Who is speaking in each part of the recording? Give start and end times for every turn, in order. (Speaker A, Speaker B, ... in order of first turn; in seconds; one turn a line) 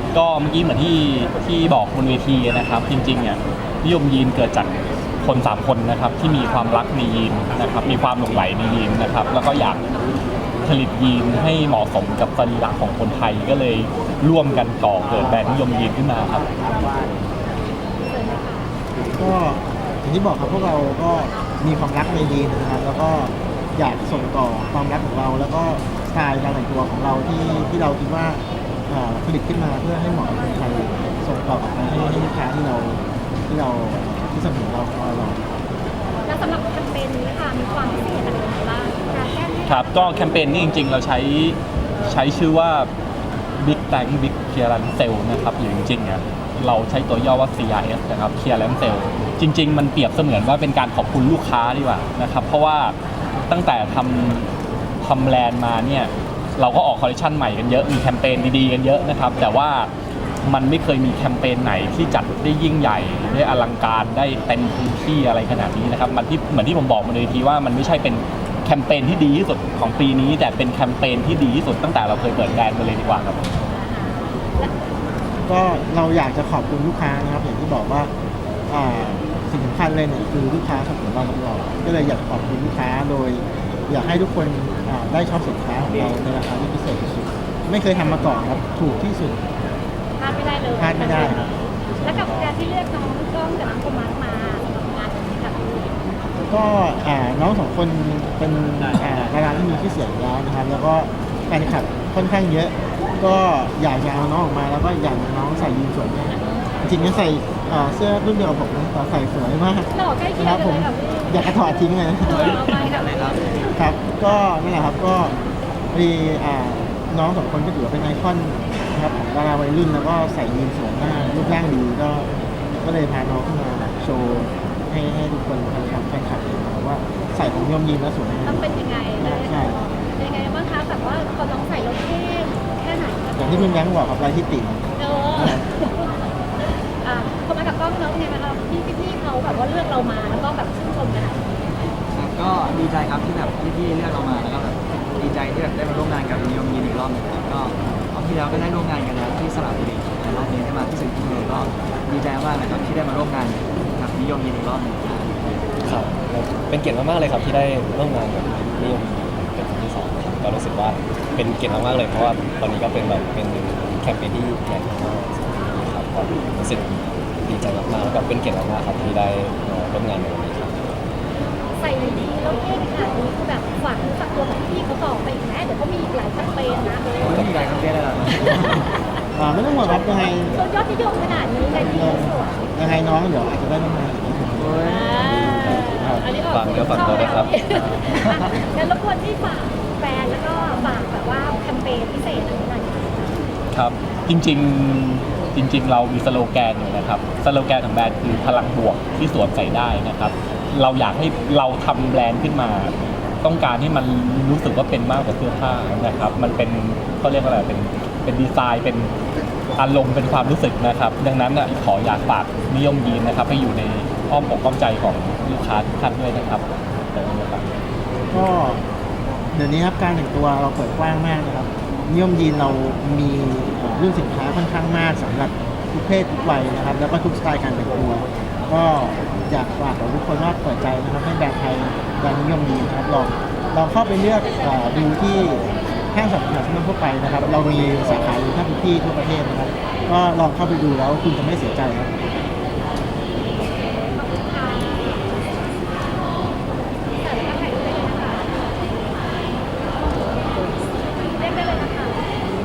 Speaker A: 0.1-9.9
Speaker A: 10.6-16.5
Speaker B: 18.0-18.7
Speaker C: 19.1-35.5
Speaker B: 36.2-39.8
Speaker A: 39.7-42.9
Speaker A: 43.6-53.0
Speaker A: 53.5-54.5
Speaker A: 55.0-59.9
Speaker A: 60.4-73.4
Speaker B: 73.6-74.7
Speaker C: 75.5-78.1
Speaker C: 78.7-89.5
Speaker B: 90.2-96.0
Speaker C: 90.8-92.6
Speaker C: 96.5-112.6
Speaker B: 109.9-113.7
Speaker D: 112.3-113.4
Speaker C: 113.6-115.4
Speaker C: 115.9-122.3
Speaker C: 122.8-128.7
Speaker B: 128.5-133.9
Speaker C: 129.2-129.9
Speaker C: 133.4-135.7
Speaker B: 135.0-141.5
Speaker D: 142.1-155.4
Speaker E: 155.8-170.9
Speaker B: 171.7-177.4
Speaker D: 177.2-178.8
Speaker C: 179.3-180.6
Speaker B: 179.8-182.6
Speaker C: 181.7-186.3
Speaker D: 184.6-185.1
Speaker B: 184.8-193.5
Speaker E: 185.2-188.1
Speaker A: 193.7-209.1
Speaker A: 209.8-217.7
Speaker C: 218.3-218.8
Speaker C: 219.5-242.2
Speaker B: 243.5-245.6
Speaker B: 247.1-249.5
Speaker B: 250.2-252.3